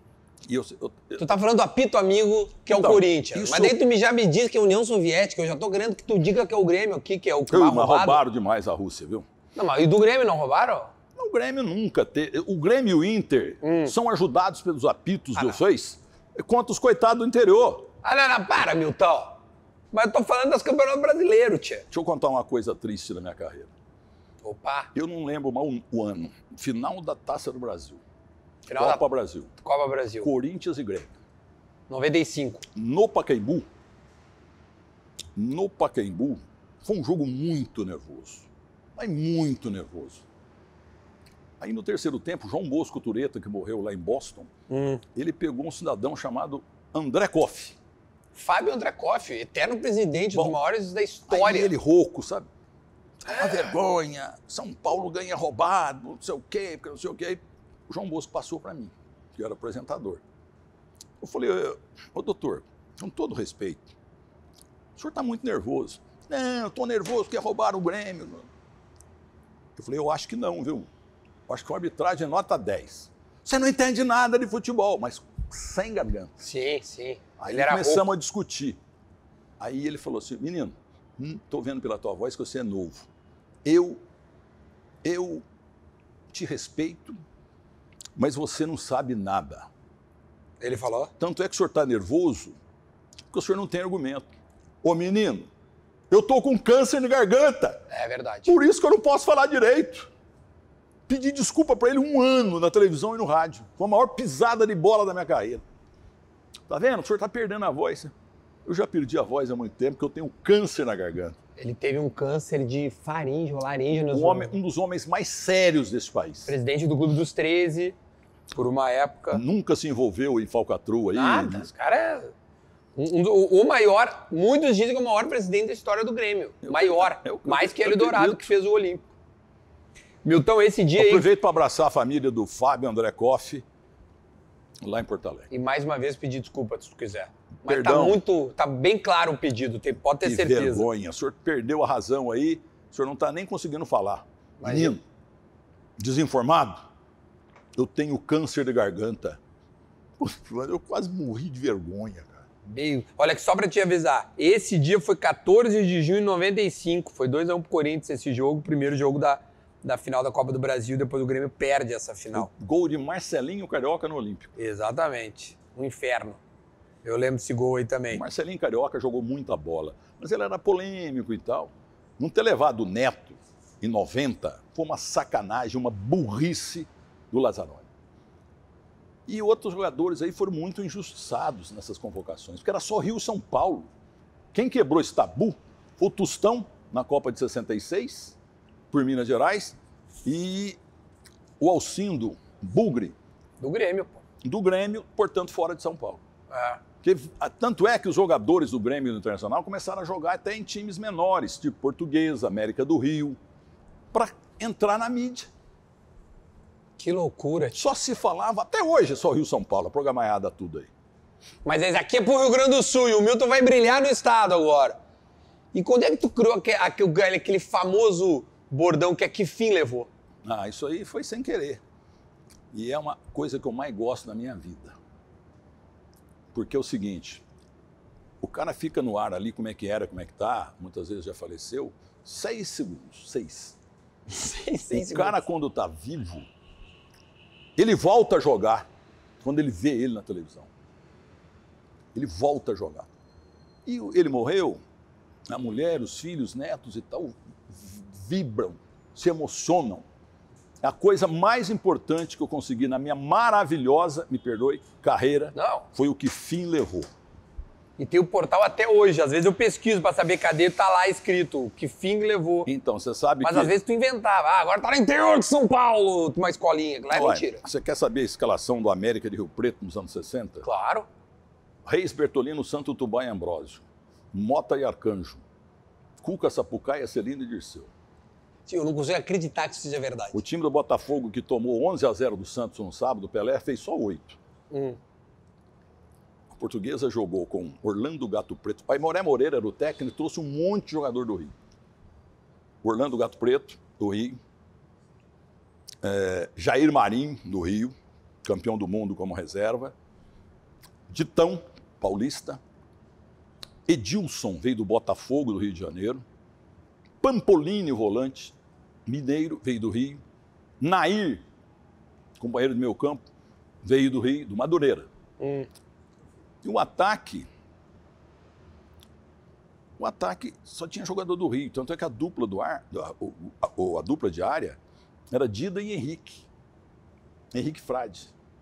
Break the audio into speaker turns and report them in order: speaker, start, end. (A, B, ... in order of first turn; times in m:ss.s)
0:00.5-0:01.3 A
0:01.2-0:08.2 B
0:02.7-0:03.8 A
0:07.5-0:09.3 A
0:09.6-0:10.9 B
0:11.2-0:17.9 A
0:13.6-0:14.0 B
0:18.0-0:19.4 B
0:19.9-0:21.9 B
0:21.9-0:23.7 A
0:24.4-0:24.9 B
0:24.9-0:28.0 A
0:28.7-0:29.0 B
0:28.8-0:29.5 A
0:29.6-0:30.3 B
0:30.2-0:31.1 A
0:31.9-0:32.6 B
0:32.8-0:33.7 A
0:35.4-0:40.2 A
0:41.6-0:44.5 A
0:44.7-0:45.0 B
0:45.2-0:47.8 A
0:48.3-0:51.7 B
0:50.3-0:50.6 A
0:51.3-0:52.5 A
0:53.2-1:00.2 A
0:53.3-0:53.6 B
1:01.2-1:03.9 A
1:05.0-1:08.5 A
1:09.8-1:10.9 A
1:11.5-1:16.4 A
1:16.4-1:18.1 B
1:17.4-1:18.8 A
1:19.6-1:23.1 A
1:23.6-1:24.0 A
1:25.0-1:25.4 A
1:26.3-1:27.2 A
1:28.2-1:29.7 A
1:30.6-1:31.1 B
1:31.2-1:32.6 A
1:33.3-1:34.3 A
1:34.8-1:35.5 A
1:36.1-1:37.8 A
1:37.9-1:38.6 B
1:38.5-1:40.1 A
1:41.1-1:45.6 A
1:46.7-1:48.1 A
1:48.7-1:51.4 A
1:51.6-1:54.6 B
1:54.1-1:56.5 A
1:56.5-1:58.0 B
1:58.5-1:59.4 B
1:59.3-2:01.7 A
2:01.1-2:02.3 B
2:03.0-2:09.1 B
2:06.6-2:08.5 A
2:10.2-2:11.3 B
2:11.0-2:13.6 A
2:14.8-2:15.5 A
2:15.5-2:20.9 B
2:17.7-2:18.2 A
2:20.2-2:25.0 A
2:24.6-2:25.0 B
2:26.0-2:26.8 A
2:27.8-2:29.4 A
2:30.2-2:32.4 A
2:32.7-2:42.5 B
2:42.3-2:44.5 A
2:44.6-2:46.4 B
2:47.0-2:48.2 B
2:48.1-2:57.9 A
2:59.3-3:03.9 A
3:04.5-3:08.4 A
3:08.9-3:10.8 A
3:11.6-3:13.2 A
3:13.6-3:14.2 B
3:14.4-3:16.2 A
3:16.5-3:16.8 B
3:17.0-3:23.4 A
3:24.1-3:25.5 A
3:27.0-3:27.8 B
3:27.8-3:30.9 A
3:31.6-3:35.0 B
3:35.7-3:40.1 B
3:40.4-3:41.8 A
3:42.7-3:45.0 A
3:46.5-3:47.4 A
3:48.4-3:53.8 A
3:54.3-3:55.4 B
3:54.9-3:56.5 A
3:57.8-3:58.9 A
3:59.4-4:00.7 A
4:02.1-4:03.1 A
4:03.8-4:04.8 A
4:05.5-4:10.1 A
4:10.8-4:17.1 A
4:15.6-4:15.9 B
4:18.0-4:22.7 B
4:22.7-4:23.7 A
4:23.4-4:27.6 B
4:27.1-4:30.6 A
4:30.6-4:31.1 B
4:31.9-4:35.4 A
4:36.2-4:37.9 A
4:38.7-4:40.4 B
4:40.3-4:44.4 A
4:44.7-4:45.0 B
4:46.5-4:51.5 A
4:52.8-4:54.4 A
4:56.0-4:59.9 A
5:01.1-5:02.6 A
5:03.9-5:06.2 A
5:07.2-5:08.6 A
5:09.1-5:10.2 A
5:10.8-5:11.4 A
5:12.4-5:13.2 A
5:13.8-5:15.1 A
5:15.4-5:15.7 B
5:16.6-5:17.5 A
5:20.0-5:24.8 A
5:25.3-5:26.4 A
5:27.5-5:28.3 A